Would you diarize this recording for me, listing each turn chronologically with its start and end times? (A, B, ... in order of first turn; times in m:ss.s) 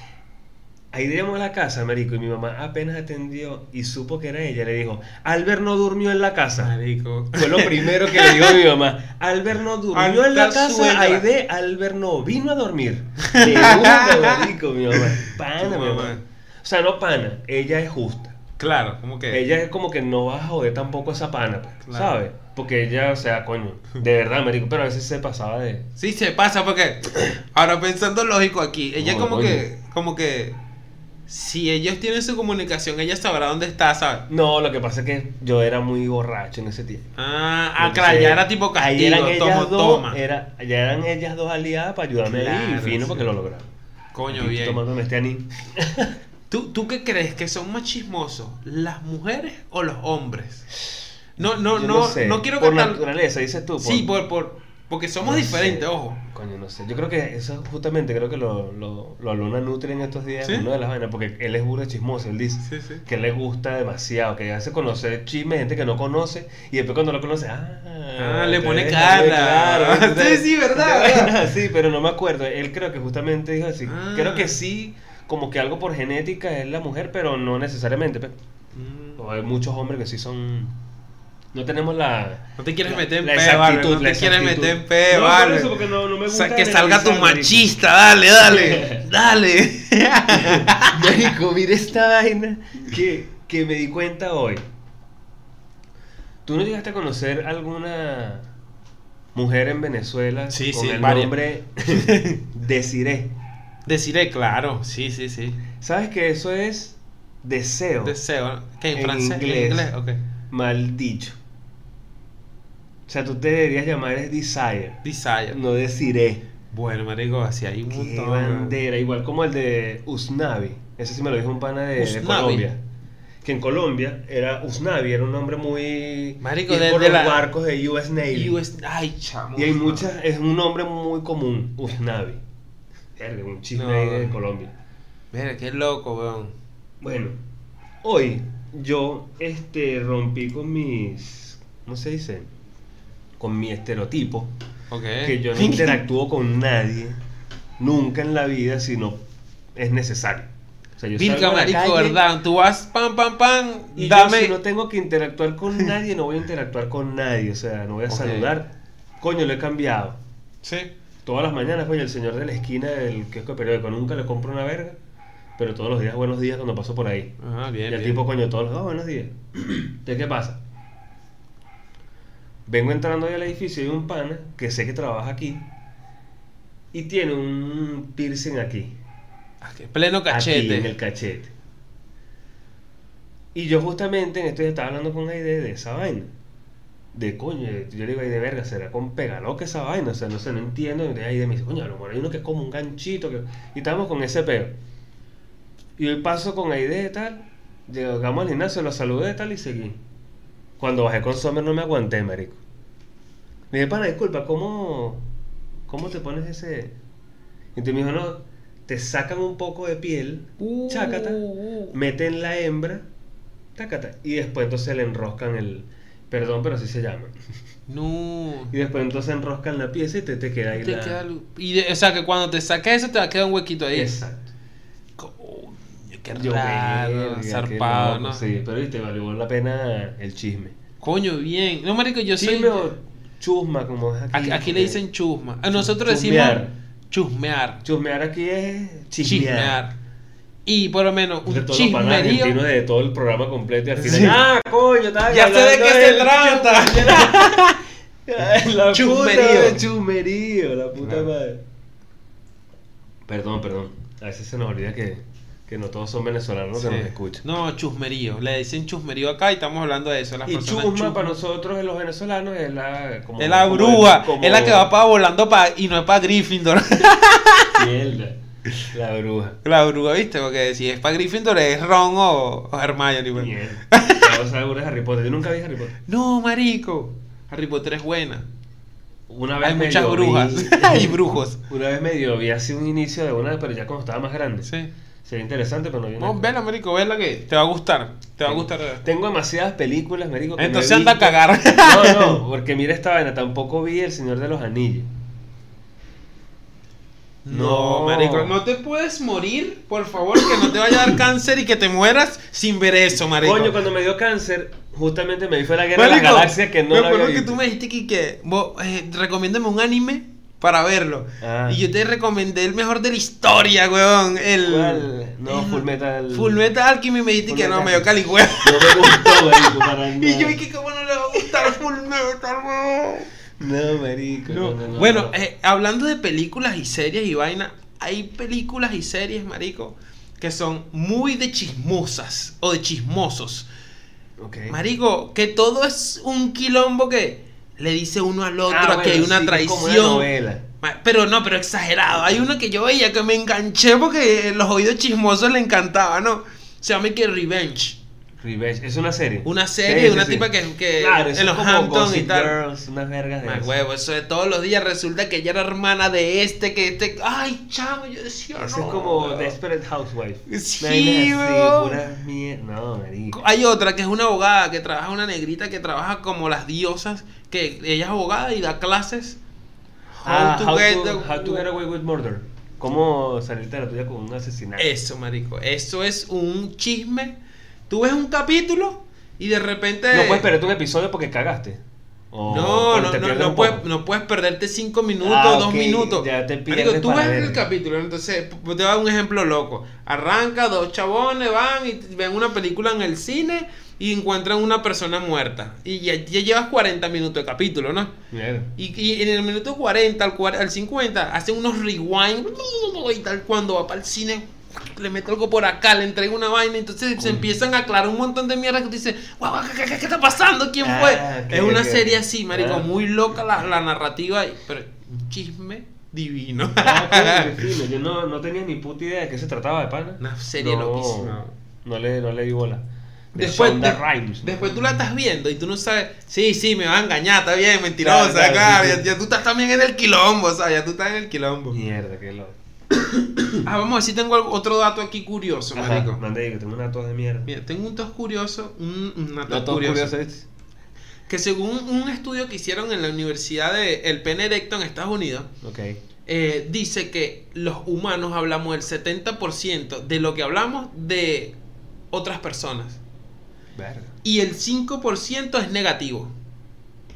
0:00.9-0:06.7 A
0:06.6-0:08.6 B
0:07.3-0:18.4 A
0:09.9-0:11.3 B
0:13.2-0:14.5 B
0:15.3-0:16.2 B
0:18.6-0:19.4 B
0:19.3-0:25.9 A
0:21.8-0:22.2 B
0:26.0-0:30.6 B
0:29.0-0:29.6 A
0:31.3-0:34.3 B
0:34.3-0:37.1 A
0:37.2-0:40.2 B
0:37.8-0:43.7 A
0:42.3-0:43.3 B
0:44.2-0:44.8 B
0:44.3-0:46.1 A
0:46.5-0:50.7 B
0:51.4-0:53.0 B
0:51.4-0:54.1 A
0:53.8-0:56.2 B
0:55.2-1:18.4 A
1:02.7-1:03.0 B
1:08.2-1:11.4 B
1:13.9-1:14.6 B
1:18.7-1:19.2 B
1:19.2-1:20.8 A
1:21.5-1:27.7 A
1:22.6-1:25.7 B
1:26.3-1:31.3 B
1:28.4-1:29.0 A
1:30.3-1:34.6 A
1:36.4-1:38.5 A
1:39.3-1:43.3 A
1:40.5-1:41.3 B
1:41.9-1:42.4 B
1:43.9-1:45.6 B
1:45.8-1:48.2 A
1:48.0-1:50.2 B
1:48.9-1:49.9 A
1:50.5-1:51.4 A
1:53.1-1:56.4 A
1:55.0-1:55.6 B
1:56.7-1:58.8 B
1:57.9-2:02.8 A
2:02.0-2:02.7 B
2:03.4-2:08.6 A
2:06.4-2:07.5 B
2:08.3-2:10.1 B
2:09.6-2:12.4 A
2:13.2-2:14.7 A
2:13.7-2:14.4 B
2:15.3-2:16.5 B
2:17.0-2:17.4 A
2:18.0-2:22.5 A
2:23.4-2:24.5 A
2:24.9-2:26.0 B
2:25.2-2:27.2 A
2:27.8-2:29.2 A
2:29.8-2:32.2 A
2:31.2-2:34.6 B
2:34.0-2:40.2 A
2:38.1-2:38.5 B
2:40.6-2:40.9 B
2:41.2-2:45.0 A
2:45.6-2:47.3 A
2:47.4-2:48.2 B
2:47.9-2:50.6 A
2:52.7-2:55.7 A
2:56.9-2:58.9 A
2:59.6-3:00.9 B
3:00.3-3:01.5 A
3:03.5-3:06.3 A
3:07.1-3:14.8 A
3:16.0-3:20.0 A
3:20.8-3:22.6 A
3:23.7-3:25.2 A
3:25.9-3:27.0 A
3:27.8-3:31.4 A
3:30.6-3:32.0 B
3:31.9-3:33.1 A
3:33.8-3:37.4 A
3:37.9-3:38.7 B
3:38.7-3:41.2 A
3:40.8-3:44.1 B
3:43.9-3:44.4 A
3:45.2-3:48.5 B
3:46.4-3:50.7 A
3:51.0-3:52.9 B
3:52.4-3:55.0 A
3:54.3-3:57.8 B
3:55.7-3:56.7 A
3:57.8-3:59.8 A
3:59.2-3:59.9 B
4:00.7-4:02.6 B
4:01.4-4:07.6 A
4:04.0-4:04.4 B
4:05.3-4:07.8 B
4:08.2-4:11.6 A
4:08.9-4:09.8 B
4:11.0-4:11.3 B
4:13.3-4:17.4 A
4:16.8-4:21.3 B
4:20.5-4:24.9 A
4:23.4-4:27.9 B
4:27.8-4:28.4 A
4:28.9-4:29.6 A
4:29.6-4:34.3 B
4:33.4-4:35.9 A
4:36.1-4:38.5 B
4:39.3-4:44.7 A
4:39.6-4:41.6 B
4:44.6-4:44.9 B
4:45.2-4:46.5 A
4:46.2-4:49.0 B
4:48.4-4:55.1 A
4:50.6-4:52.4 B
4:57.4-5:03.8 B
4:57.5-4:58.6 A
5:03.4-5:07.6 A
5:05.9-5:23.3 B
5:11.4-5:11.8 A
5:14.6-5:16.6 A
5:17.4-5:18.1 A
5:18.6-5:20.6 A
5:23.6-5:25.4 A
5:24.5-5:33.7 B
5:34.4-5:34.8 A
5:34.7-5:40.3 B
5:38.7-5:40.6 A
5:40.8-5:48.0 B
5:48.4-5:53.7 A
5:49.4-5:52.6 B
5:53.4-5:59.6 B
5:58.6-6:03.4 A
6:00.5-6:02.0 B
6:03.3-6:09.4 B
6:10.1-6:11.7 B
6:10.2-6:14.9 A
6:14.8-6:17.4 B
6:17.9-6:20.5 B
6:20.1-6:21.8 A
6:22.3-6:23.9 A
6:22.5-6:38.1 B
6:25.2-6:27.6 A
6:38.3-6:38.7 A
6:38.8-6:57.6 B
6:47.2-6:47.4 A
6:50.8-6:52.9 A
6:56.8-7:05.0 A
7:00.2-7:01.6 B
7:03.4-7:11.8 B
7:08.0-7:09.0 A
7:11.7-7:13.6 A
7:13.6-7:16.2 B
7:15.8-7:17.5 A
7:17.5-7:20.2 B
7:19.5-7:20.5 A
7:21.3-7:25.5 B
7:25.6-7:26.0 A
7:26.3-7:31.6 B
7:32.1-7:33.0 B
7:33.8-7:34.1 A
7:34.2-7:36.3 B